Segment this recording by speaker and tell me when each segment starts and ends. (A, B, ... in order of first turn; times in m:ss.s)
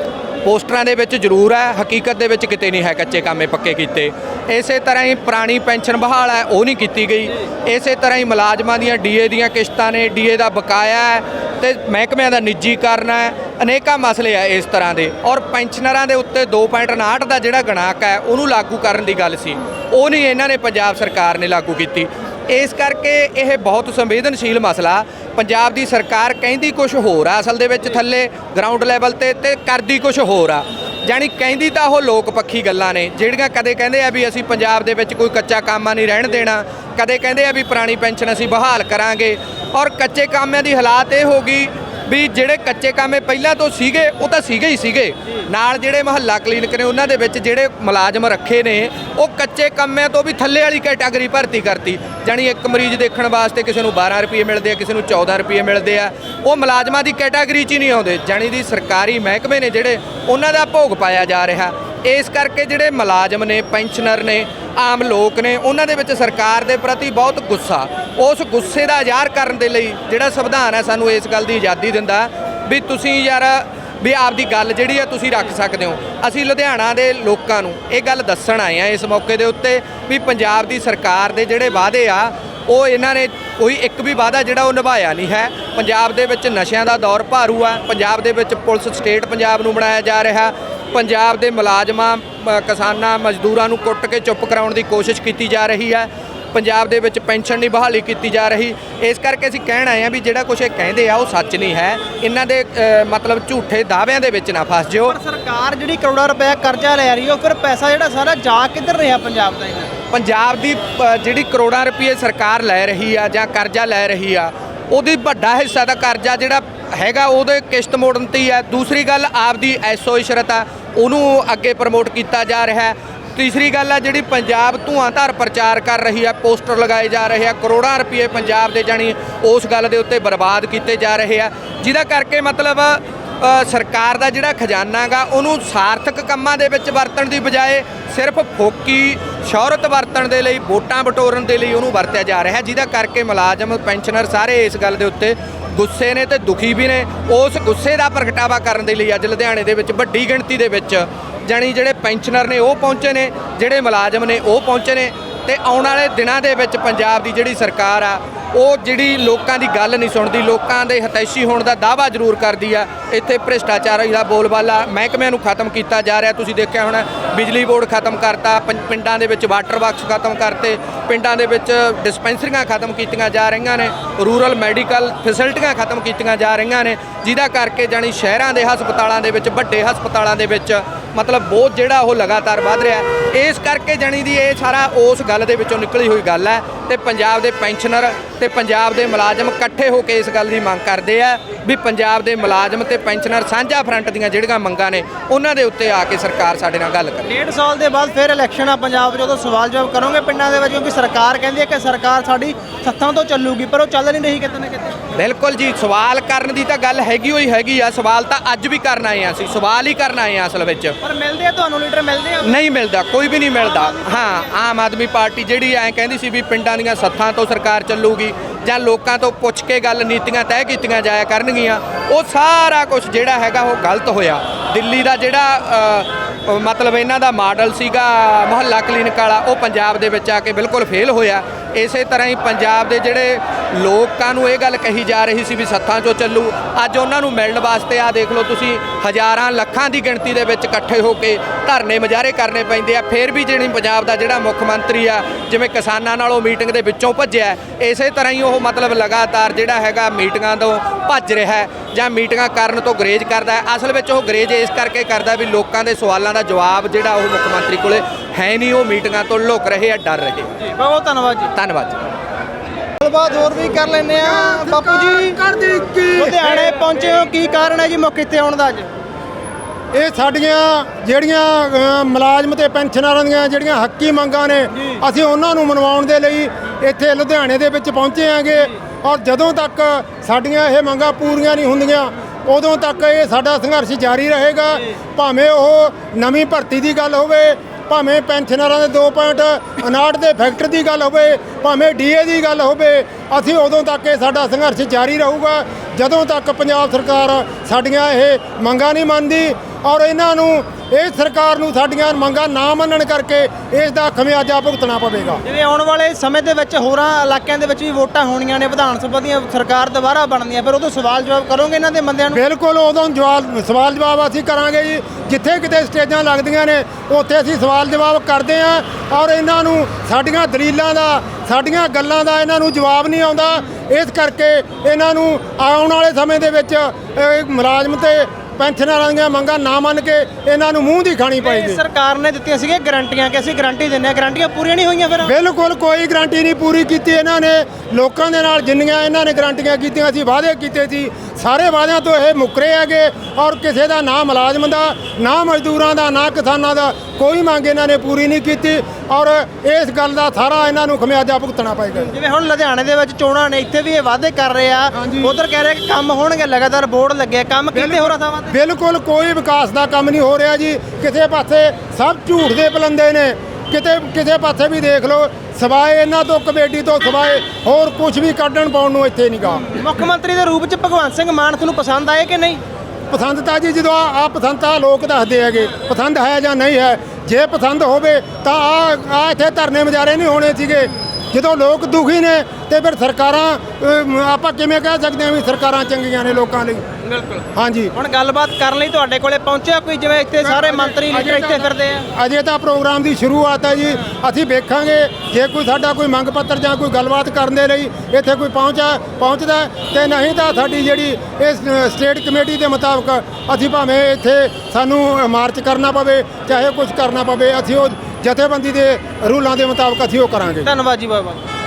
0:00.4-1:45.2 A
1:45.0-1:49.9 B
1:50.1-3:17.4 A
3:17.3-3:25.0 B
3:25.1-3:31.0 A
3:31.0-3:32.6 B
3:32.4-4:20.5 A
3:33.6-3:34.5 B
4:20.7-4:21.5 B
4:21.5-4:22.1 A
4:23.0-4:25.4 B
4:24.3-4:26.6 C
4:26.1-4:28.9 B
4:29.9-5:05.4 C
5:05.4-5:12.4 B
5:12.3-5:31.8 C
5:31.4-5:35.3 B
5:35.2-5:52.1 C
5:52.0-5:58.5 B
5:54.9-5:55.3 C
5:57.7-6:09.8 C
6:09.7-6:12.6 B
6:13.1-6:26.9 C
6:27.0-6:27.4 B
6:27.5-6:27.9 C
6:28.0-6:32.1 B
6:30.4-6:50.7 C
6:50.6-6:51.4 B